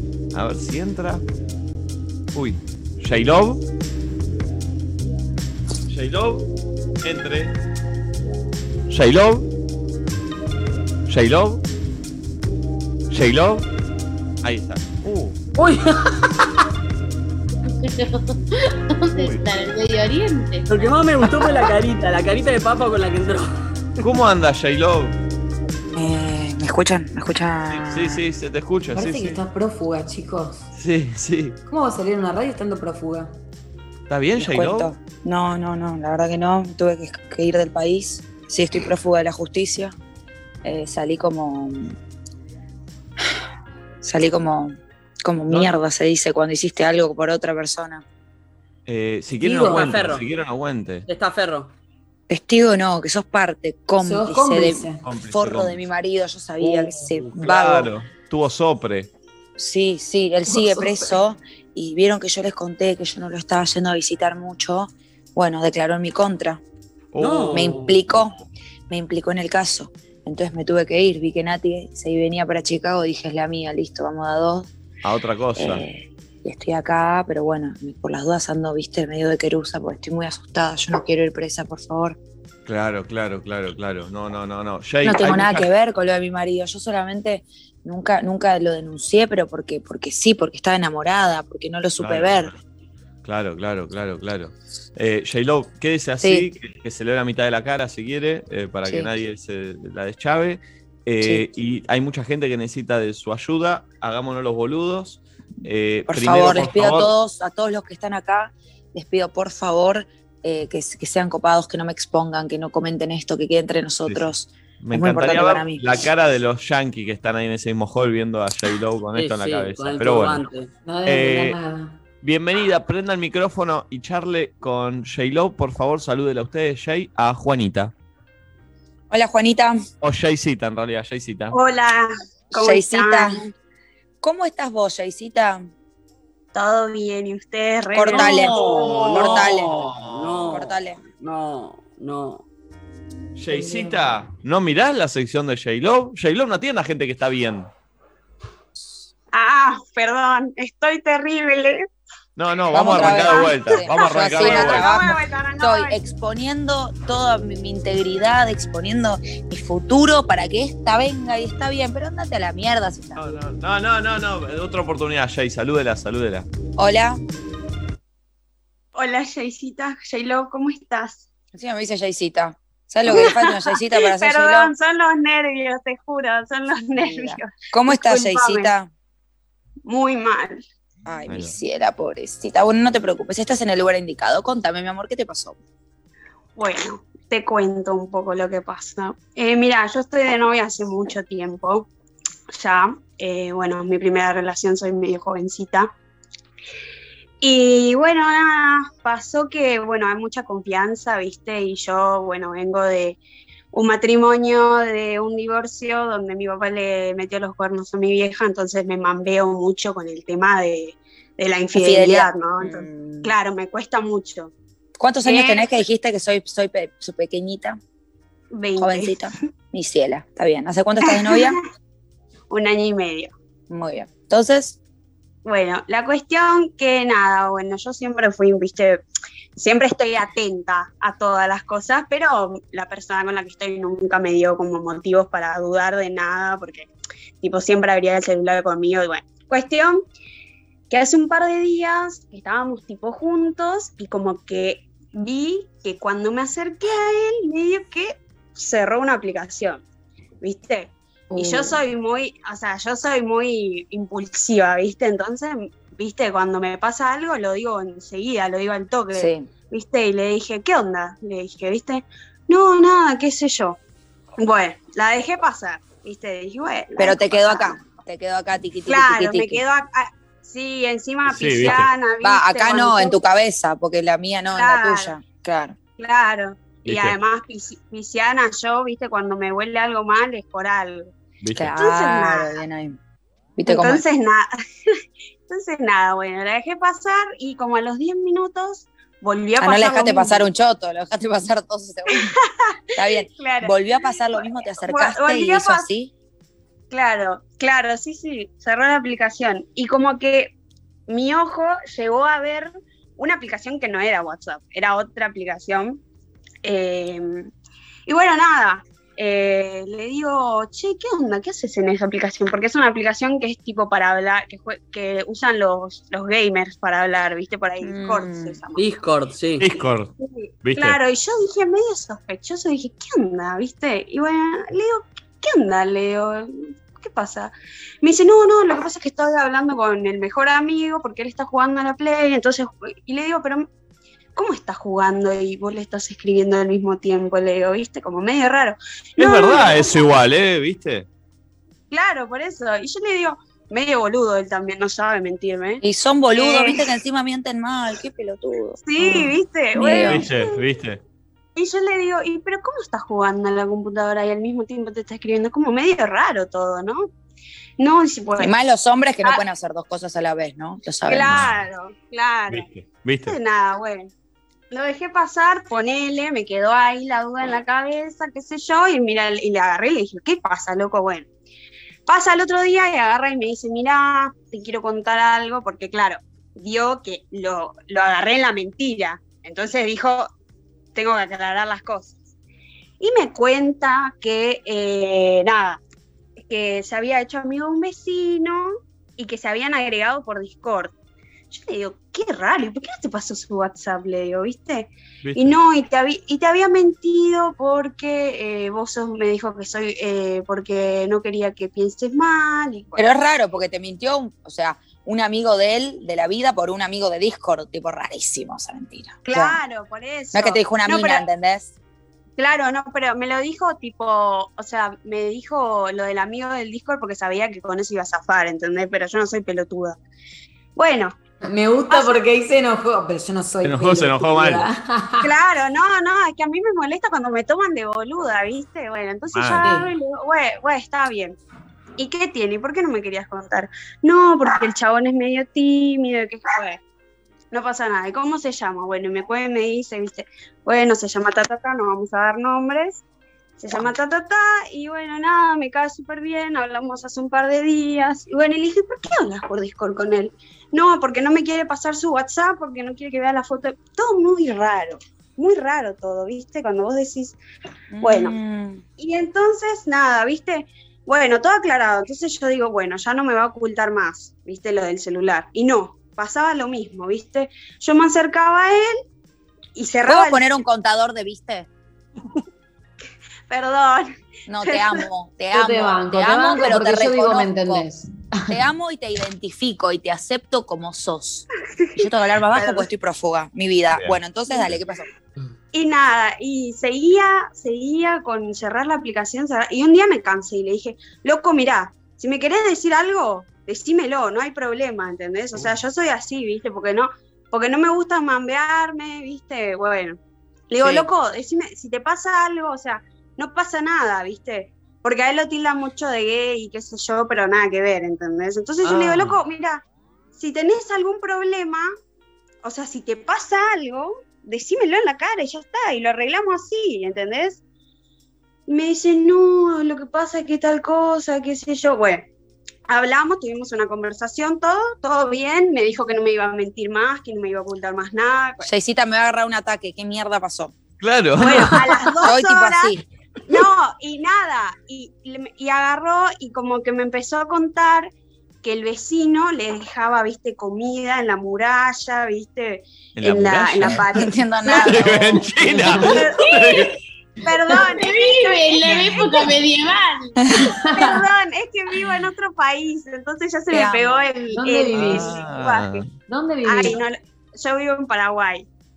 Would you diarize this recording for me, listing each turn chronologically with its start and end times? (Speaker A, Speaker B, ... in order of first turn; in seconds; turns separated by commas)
Speaker A: 0.3-1.2, Speaker A: 2.3-3.6, Speaker A: 5.9-6.5, Speaker A: 7.0-7.5, Speaker A: 8.9-9.5, Speaker A: 11.1-11.6, Speaker A: 13.1-13.7, Speaker A: 14.4-15.4, Speaker B: 15.6-16.0, Speaker C: 17.7-18.4, Speaker C: 19.0-21.7, Speaker A: 19.1-19.4, Speaker B: 20.7-23.5, Speaker A: 24.0-25.1, Speaker D: 25.9-28.2, Speaker A: 27.7-29.4, Speaker E: 28.9-30.6, Speaker A: 30.7-31.6, Speaker E: 31.7-33.3, Speaker A: 34.1-34.9, Speaker D: 34.4-40.0, Speaker D: 40.6-42.0, Speaker D: 44.0-48.0, Speaker A: 45.5-45.7, Speaker A: 48.9-51.1, Speaker E: 49.4-50.0, Speaker B: 49.6-50.2, Speaker B: 51.0-51.7, Speaker D: 52.3-57.9, Speaker E: 54.0-55.0, Speaker A: 55.0-55.8, Speaker A: 56.9-59.1, Speaker D: 59.6-66.6, Speaker E: 60.5-61.2, Speaker A: 67.1-68.2, Speaker B: 67.2-68.0, Speaker D: 67.5-68.3, Speaker D: 68.9-74.7, Speaker A: 75.0-75.8, Speaker D: 75.5-82.2, Speaker A: 82.7-85.7, Speaker D: 85.0-92.5, Speaker A: 92.0-92.6, Speaker A: 93.2-107.1, Speaker D: 96.2-96.5, Speaker D: 98.8-99.1, Speaker D: 101.2-101.5, Speaker D: 106.1-116.0, Speaker A: 114.0-120.5, Speaker B: 119.1-120.7, Speaker E: 120.8-122.0, Speaker A: 121.0-121.6, Speaker A: 122.2-127.9, Speaker D: 129.1-129.8, Speaker A: 130.0-131.6, Speaker F: 131.5-133.5, Speaker D: 132.5-133.4, Speaker D: 134.2-135.7, Speaker F: 136.5-138.9, Speaker D: 137.9-138.5, Speaker B: 138.1-142.4, Speaker A: 138.5-140.7, Speaker D: 139.1-139.7, Speaker D: 140.5-141.0, Speaker A: 143.3-147.7, Speaker E: 143.5-144.0, Speaker F: 149.3-151.8, Speaker A: 152.4-154.9, Speaker D: 152.7-163.2, Speaker F: 152.9-156.0, Speaker A: 163.2-166.5, Speaker D: 166.8-167.2, Speaker F: 168.9-171.3, Speaker D: 171.5-174.7, Speaker F: 173.1-178.7, Speaker D: 177.0-178.9, Speaker F: 179.8-180.6, Speaker D: 181.1-185.6, Speaker A: 181.3-181.6, Speaker F: 186.6-191.9, Speaker F: 192.5-195.9, Speaker F: 197.4-203.2, Speaker F: 203.7-214.5, Speaker D: 211.7-213.3, Speaker D: 215.0-217.8, Speaker F: 215.2-215.7, Speaker F: 218.5-219.2, Speaker D: 218.8-221.6, Speaker F: 221.0-221.6, Speaker F: 222.5-223.3, Speaker D: 223.7-224.8, Speaker F: 225.4-229.0, Speaker F: 229.6-236.9, Speaker F: 237.4-240.0, Speaker F: 240.9-249.8, Speaker F: 250.4-263.8, Speaker E: 251.3-251.8, Speaker D: 259.1-259.5, Speaker F: 264.4-267.8, Speaker D: 267.0-269.6, Speaker F: 268.9-273.2, Speaker A: 271.2-271.9, Speaker D: 272.2-275.8, Speaker F: 274.5-275.1, Speaker F: 276.0-281.1, Speaker A: 276.9-277.2, Speaker A: 281.4-281.7, Speaker D: 281.6-283.0, Speaker F: 281.8-282.6, Speaker D: 283.6-284.0, Speaker F: 283.7-290.5, Speaker D: 289.6-292.3, Speaker F: 292.1-293.8, Speaker D: 292.9-296.1, Speaker F: 294.3-295.9, Speaker F: 296.9-300.5, Speaker F: 301.1-306.0, Speaker F: 306.6-307.5, Speaker F: 308.1-318.8, Speaker D: 317.8-318.6, Speaker B: 318.8-319.7, Speaker A: 319.6-320.1, Speaker F: 320.2-333.7, Speaker A: 320.6-321.0, Speaker F: 334.4-340.0, Speaker A: 339.2-341.1, Speaker F: 341.9-346.9, Speaker D: 345.8-350.2, Speaker F: 348.9-350.6, Speaker A: 350.0-351.0, Speaker F: 351.6-357.1, Speaker F: 357.8-358.5, Speaker D: 358.4-361.4, Speaker F: 361.1-362.7, Speaker A: 361.3-361.6, Speaker A: 362.5-363.4, Speaker F: 363.2-364.1, Speaker F: 364.7-371.3, Speaker F: 372.1-380.3, Speaker F: 380.9-382.1, Speaker F: 383.0-385.8, Speaker F: 386.5-390.9, Speaker F: 391.5-403.0, Speaker A: 395.2-395.6, Speaker D: 402.9-409.6, Speaker F: 409.2-411.2, Speaker D: 410.3-411.7, Speaker F: 412.4-420.0, Speaker F: 420.8-421.1, Speaker E: 421.4-425.3, Speaker F: 421.9-422.2, Speaker A: 423.6-424.7, Speaker F: 425.2-431.4, Speaker A: 429.3-429.6, Speaker E: 429.6-429.9, Speaker F: 432.0-436.8, Speaker F: 437.5-443.0, Speaker F: 443.6-457.4, Speaker D: 457.9-458.8, Speaker F: 458.0-458.4, Speaker F: 459.0-469.0, Speaker F: 469.7-470.5, Speaker D: 470.1-471.7, Speaker F: 473.5-475.1, Speaker D: 474.5-477.9, Speaker E: 475.5-478.6, Speaker D: 478.5-485.1, Speaker F: 481.8-482.9, Speaker A: 483.9-484.2, Speaker F: 485.7-500.2, Speaker F: 500.7-511.9, Speaker B: 508.9-509.4, Speaker F: 512.6-517.6, Speaker F: 518.7-522.3, Speaker F: 522.9-528.7, Speaker D: 528.6-530.7, Speaker A: 531.0-531.8, Speaker F: 531.4-533.0, Speaker D: 532.2-533.0, Speaker F: 533.5-538.1, Speaker F: 538.6-546.4, Speaker A: 543.2-546.9, Speaker D: 544.1-545.3, Speaker E: 545.8-546.2, Speaker F: 547.4-549.6, Speaker C: 547.7-550.3, Speaker E: 550.6-551.2, Speaker F: 550.9-556.0, Speaker D: 553.7-554.3, Speaker E: 554.5-555.4, Speaker A: 554.9-556.1, Speaker E: 556.3-557.0, Speaker F: 556.6-558.7